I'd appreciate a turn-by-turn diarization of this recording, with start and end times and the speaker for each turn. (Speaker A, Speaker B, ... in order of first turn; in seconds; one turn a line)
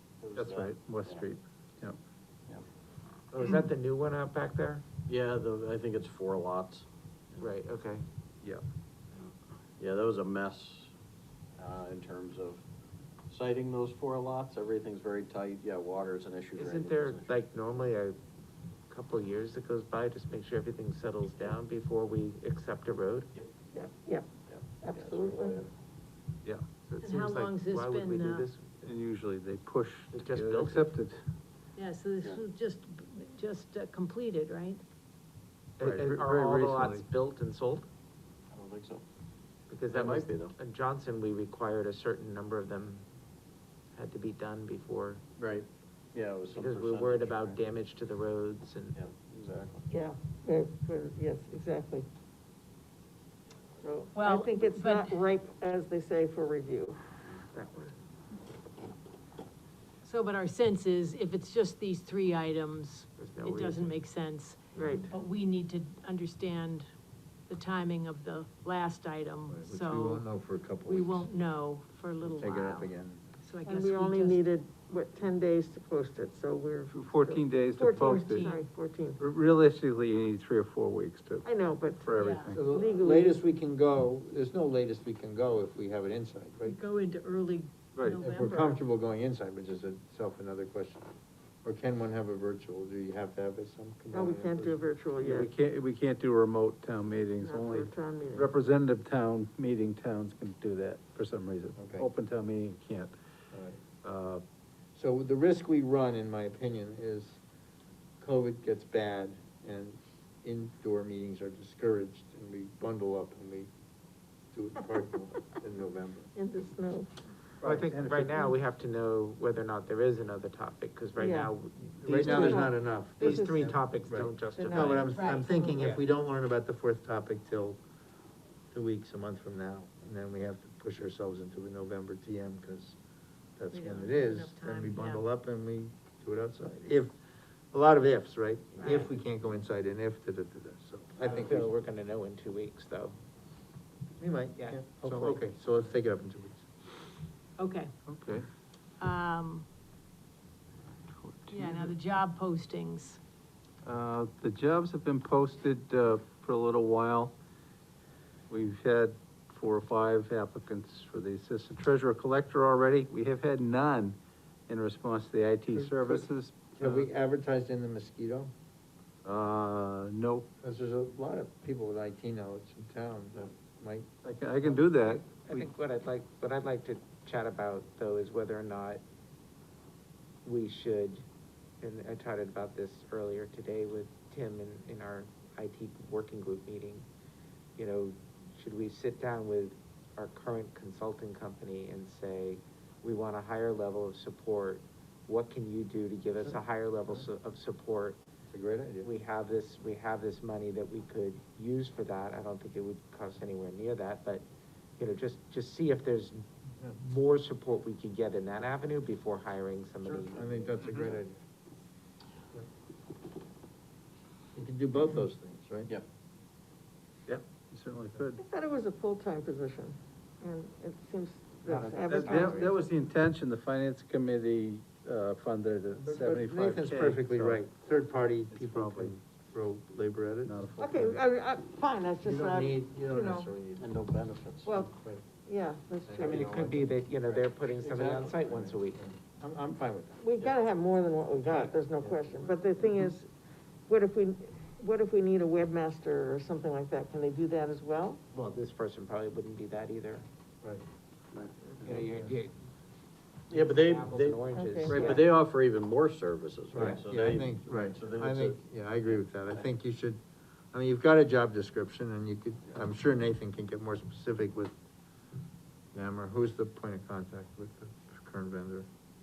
Speaker A: 0.2-1.3
Speaker B: 0.4-2.0
Speaker C: 3.3-4.8
Speaker A: 5.1-7.4
Speaker C: 7.4-8.1
Speaker A: 9.8-10.9
Speaker A: 11.6-12.6
Speaker A: 13.3-17.3
Speaker C: 16.6-18.2
Speaker C: 18.9-23.3
Speaker D: 23.7-24.3
Speaker A: 24.5-25.7
Speaker D: 24.8-25.7
Speaker C: 26.9-28.9
Speaker E: 27.0-28.5
Speaker B: 28.8-31.2
Speaker C: 30.1-30.9
Speaker E: 31.8-34.8
Speaker C: 35.8-37.9
Speaker B: 35.8-37.0
Speaker A: 38.5-39.0
Speaker C: 39.7-43.1
Speaker A: 39.9-40.5
Speaker C: 44.0-45.2
Speaker A: 45.4-47.6
Speaker C: 46.5-49.0
Speaker A: 49.0-49.8
Speaker D: 49.9-52.1
Speaker D: 53.8-57.0
Speaker E: 54.1-55.2
Speaker C: 57.4-58.0
Speaker E: 60.0-66.9
Speaker C: 63.2-64.0
Speaker D: 64.8-65.1
Speaker E: 67.5-70.2
Speaker F: 69.5-71.3
Speaker E: 70.8-72.9
Speaker F: 72.2-73.2
Speaker E: 73.4-74.4
Speaker D: 73.7-79.2
Speaker B: 76.9-78.5
Speaker E: 78.2-78.6
Speaker B: 79.2-82.6
Speaker D: 81.5-83.4
Speaker E: 82.2-82.6
Speaker F: 82.5-86.8
Speaker E: 86.6-88.8
Speaker B: 88.0-88.2
Speaker F: 88.2-91.1
Speaker F: 91.6-94.8
Speaker D: 94.1-95.5
Speaker B: 95.2-103.2
Speaker D: 97.4-98.5
Speaker F: 101.8-102.1
Speaker F: 103.5-103.8
Speaker B: 104.0-104.4
Speaker F: 105.0-107.4
Speaker F: 108.2-113.7
Speaker F: 114.5-116.3
Speaker D: 116.3-117.1
Speaker B: 117.6-118.5
Speaker C: 117.6-125.2
Speaker D: 121.2-125.8
Speaker F: 122.0-127.8
Speaker E: 125.2-125.8
Speaker C: 125.7-126.0
Speaker F: 128.7-133.0
Speaker F: 133.6-137.2
Speaker E: 133.7-135.3
Speaker F: 137.7-141.7
Speaker D: 138.8-139.1
Speaker C: 141.2-143.2
Speaker F: 144.2-146.7
Speaker C: 144.6-145.4
Speaker E: 147.6-147.9
Speaker B: 148.1-148.5
Speaker E: 149.0-149.7
Speaker B: 151.1-151.9
Speaker E: 151.5-153.2
Speaker B: 153.8-157.3
Speaker B: 158.5-164.2
Speaker B: 164.7-167.1
Speaker F: 165.7-166.2
Speaker F: 166.8-168.5
Speaker B: 169.2-170.5
Speaker F: 170.6-174.1
Speaker B: 174.2-175.7
Speaker C: 175.2-179.0
Speaker C: 180.4-181.2
Speaker C: 181.8-187.1
Speaker C: 187.8-198.2
Speaker F: 198.5-199.1
Speaker C: 199.0-204.5
Speaker C: 205.0-210.8
Speaker F: 210.1-211.4
Speaker F: 214.6-215.9
Speaker B: 217.3-218.4
Speaker D: 218.4-222.7
Speaker F: 221.7-222.8
Speaker B: 222.1-227.6
Speaker F: 226.0-230.6
Speaker B: 228.5-229.2
Speaker B: 230.4-231.2
Speaker D: 230.8-233.5
Speaker F: 232.2-233.9
Speaker A: 233.8-234.7
Speaker D: 234.7-234.9
Speaker F: 234.8-235.2
Speaker D: 235.4-236.5
Speaker F: 236.1-240.2
Speaker C: 236.2-239.0
Speaker D: 240.2-243.3
Speaker F: 241.4-243.1
Speaker D: 243.9-248.2
Speaker C: 248.3-250.3
Speaker A: 251.3-252.0
Speaker C: 251.7-252.5
Speaker A: 253.5-259.6
Speaker C: 253.5-255.2
Speaker D: 254.5-255.2
Speaker F: 256.7-260.2
Speaker F: 260.7-264.7
Speaker F: 265.9-268.9